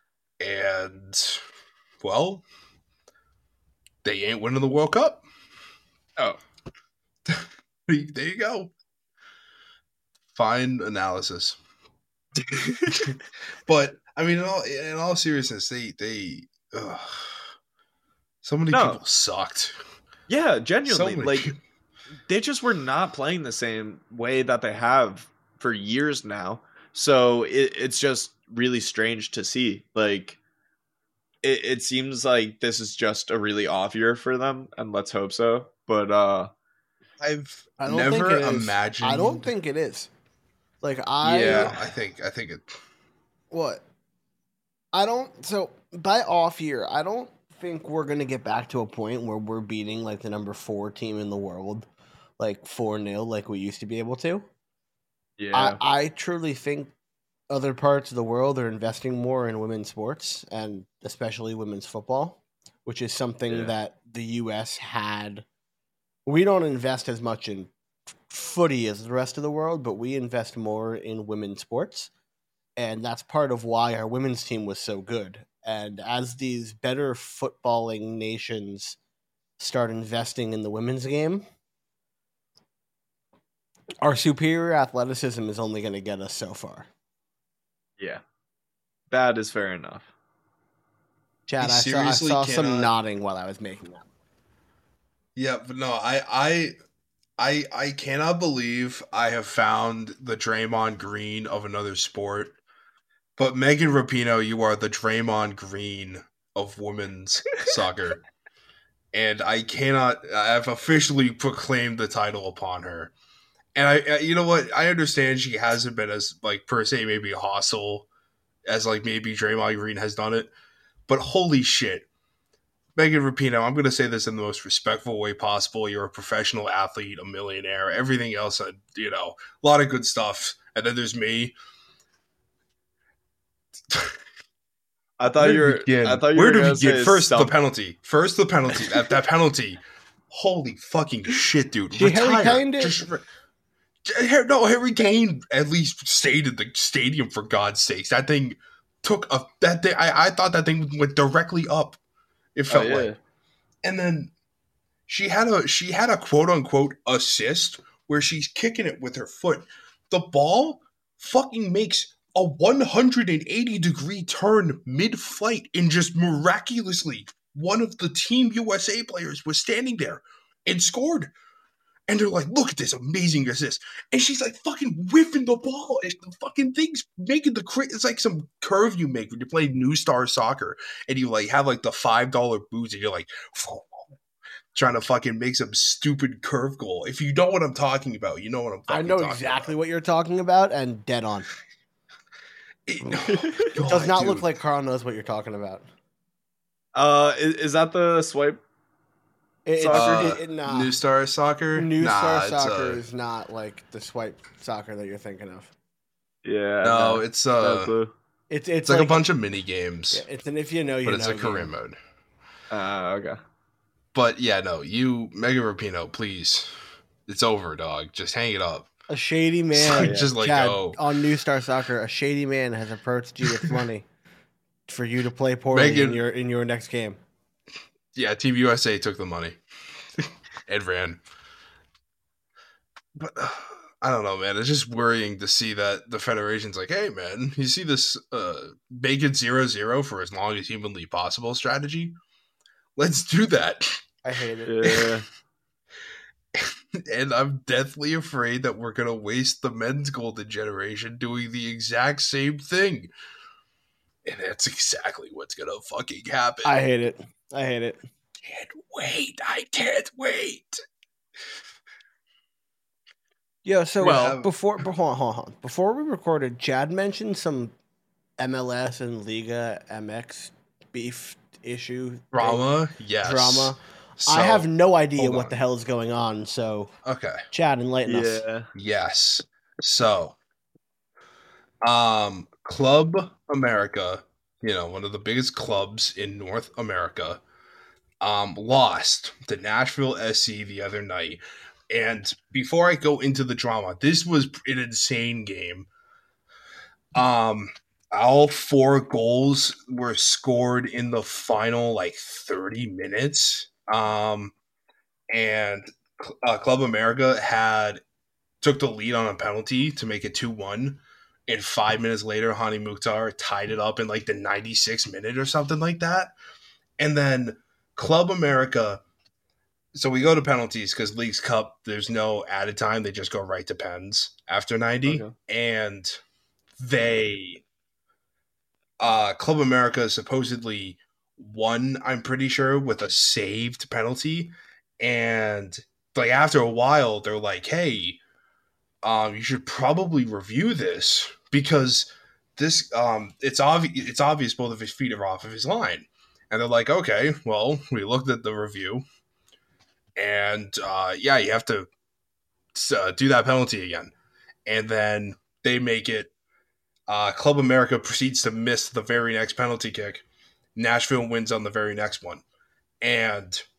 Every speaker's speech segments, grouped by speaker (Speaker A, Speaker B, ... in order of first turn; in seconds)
Speaker A: 0.4-1.4, 2.0-2.4, 4.0-5.2, 7.2-8.7, 10.3-11.6, 12.9-17.5, 18.4-19.8, 20.9-21.6, 37.2-39.5, 41.2-42.6, 91.6-92.9, 95.3-96.7, 97.4-102.6, 103.4-108.2, 109.1-113.1, 113.7-118.1, 118.7-120.5, 121.1-122.1, 123.0-131.6, 133.9-134.2, 135.3-139.8, 140.3-143.2, 144.0-152.0, 152.5-153.1, 153.8-154.3, 155.1-171.3, 172.1-184.1, 184.7-189.7, 192.9-194.5, 199.9-203.0, 206.8-207.9, 208.8-210.2, 211.0-212.0, 214.1-216.7, 217.3-218.9, 219.7-221.0, 225.7-226.2, 228.1-229.6, 230.7-231.2, 233.2-242.2, 243.0-244.0, 244.8-245.2, 246.5-253.1, 254.2-256.7, 258.4-260.8, 264.0-264.5, 272.3-275.5, 277.0-277.4, 278.7-280.4, 281.8-287.4, 288.2-291.4, 291.9-295.9, 297.1-304.5, 305.3-308.0, 308.6-316.3, 317.0-319.0, 319.9-326.2, 326.8-327.6, 329.0-338.2, 339.0-349.0, 350.2-351.9, 352.7-354.1, 354.6-356.3, 357.1-360.2, 360.8-362.4, 363.0-363.6
Speaker B: 12.4-13.1, 18.7-19.0, 20.3-21.5, 22.3-30.4, 31.4-36.5, 41.4-41.9, 55.4-55.8, 89.1-90.1, 135.2-137.5, 152.7-153.2, 193.0-193.7, 196.9-198.6, 199.8-200.3, 206.4-208.1, 212.7-213.4, 220.0-220.3, 244.7-245.2, 264.0-264.4, 278.1-278.7, 325.1-325.3
Speaker C: 37.8-40.1, 40.8-41.7, 43.5-43.8, 44.9-51.9, 52.4-54.5, 55.5-56.9, 57.5-65.5, 66.2-67.7, 68.3-72.1, 72.8-79.0, 79.6-81.5, 84.0-86.9, 91.5-94.1, 141.9-143.0, 188.9-191.5, 193.9-195.8, 199.7-200.9, 201.8-205.7, 208.5-209.2, 210.1-211.7, 219.1-224.0, 224.9-227.2, 244.2-244.8, 256.6-258.0, 263.6-267.7, 268.4-272.6, 273.2-276.9, 277.5-278.4